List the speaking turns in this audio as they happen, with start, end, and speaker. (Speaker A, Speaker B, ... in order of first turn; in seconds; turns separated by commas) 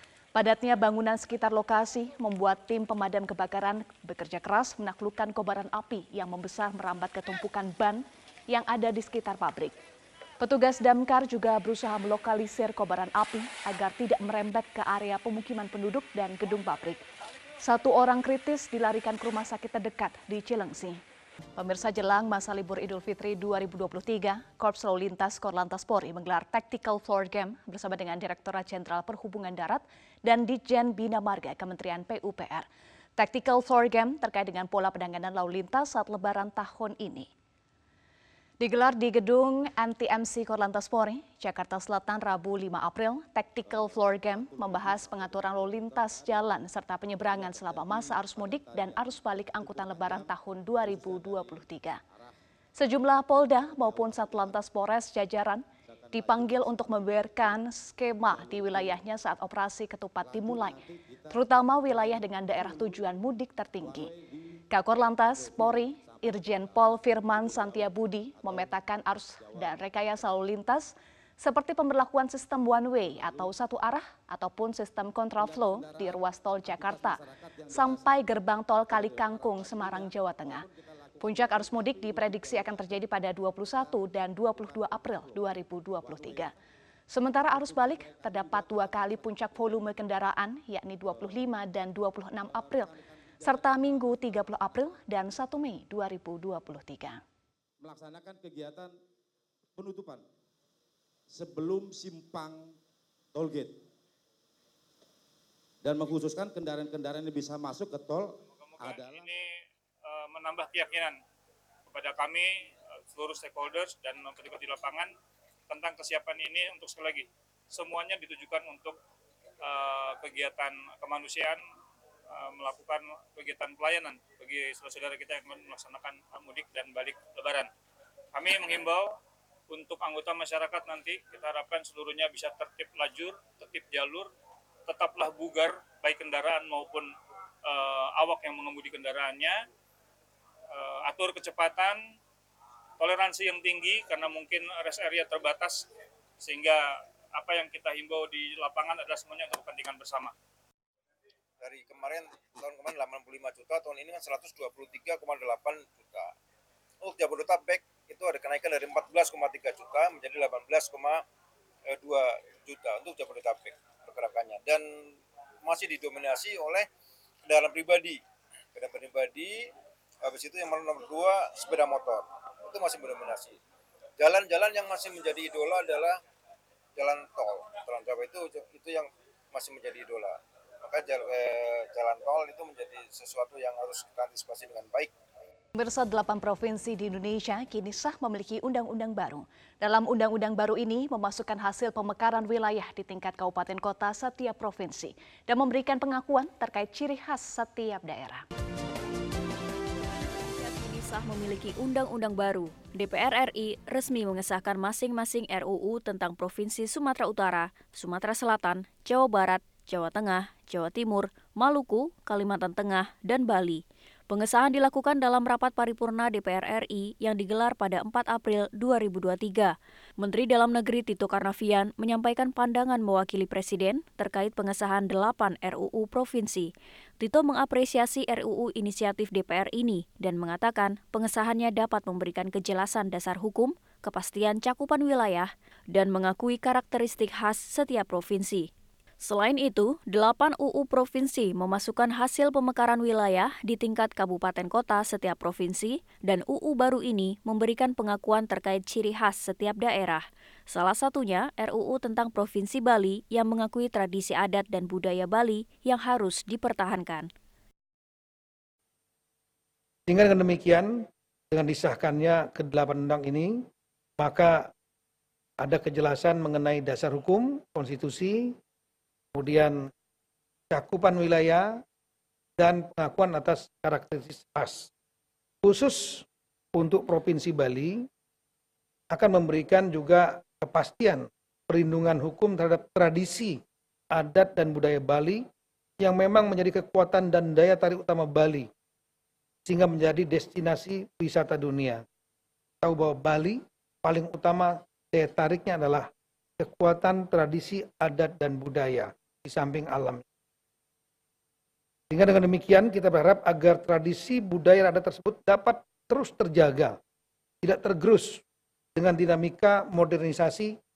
Speaker A: 0.3-9.8, Speaker A: 10.4-17.0, Speaker A: 17.6-21.0, Speaker A: 21.6-37.3, Speaker A: 38.6-52.0, Speaker B: 43.6-52.3, Speaker A: 52.7-64.1, Speaker B: 53.6-54.6, Speaker B: 55.9-57.6, Speaker B: 58.3-59.0, Speaker B: 60.2-63.0, Speaker B: 63.8-64.4, Speaker A: 64.7-80.7, Speaker B: 65.2-70.2, Speaker B: 73.1-73.5, Speaker B: 75.4-86.5, Speaker A: 81.2-86.5, Speaker A: 87.1-97.2, Speaker B: 87.5-89.9, Speaker B: 91.1-91.5, Speaker B: 92.4-94.8, Speaker B: 97.8-98.9, Speaker B: 99.7-100.2, Speaker B: 101.3-102.7, Speaker B: 103.3-103.8, Speaker B: 105.8-109.2, Speaker C: 108.6-109.5, Speaker C: 110.0-111.2, Speaker C: 111.9-115.1, Speaker C: 115.7-119.0, Speaker C: 119.6-121.6, Speaker C: 122.3-127.7, Speaker C: 128.3-129.1, Speaker C: 129.7-134.3, Speaker C: 134.9-137.1, Speaker C: 137.6-139.6, Speaker C: 140.7-142.0, Speaker C: 143.0-145.8, Speaker C: 146.4-150.3, Speaker D: 151.6-156.3, Speaker D: 157.0-161.2, Speaker D: 161.9-164.8, Speaker D: 165.7-166.8, Speaker D: 167.5-168.1, Speaker D: 168.8-169.5, Speaker D: 170.2-173.6, Speaker D: 174.2-176.1, Speaker D: 177.0-180.3, Speaker D: 180.9-185.1, Speaker A: 185.7-198.4, Speaker E: 200.6-238.7, Speaker E: 239.2-257.3, Speaker F: 260.1-263.6, Speaker F: 264.2-264.7, Speaker F: 265.6-268.5, Speaker F: 269.3-269.9, Speaker F: 270.7-271.8, Speaker F: 272.6-274.9, Speaker F: 275.6-278.1, Speaker F: 279.1-285.4, Speaker F: 286.0-288.7, Speaker F: 289.6-292.0, Speaker F: 292.8-296.1, Speaker F: 296.6-300.2, Speaker F: 302.1-307.0, Speaker F: 307.6-308.4, Speaker F: 308.9-310.8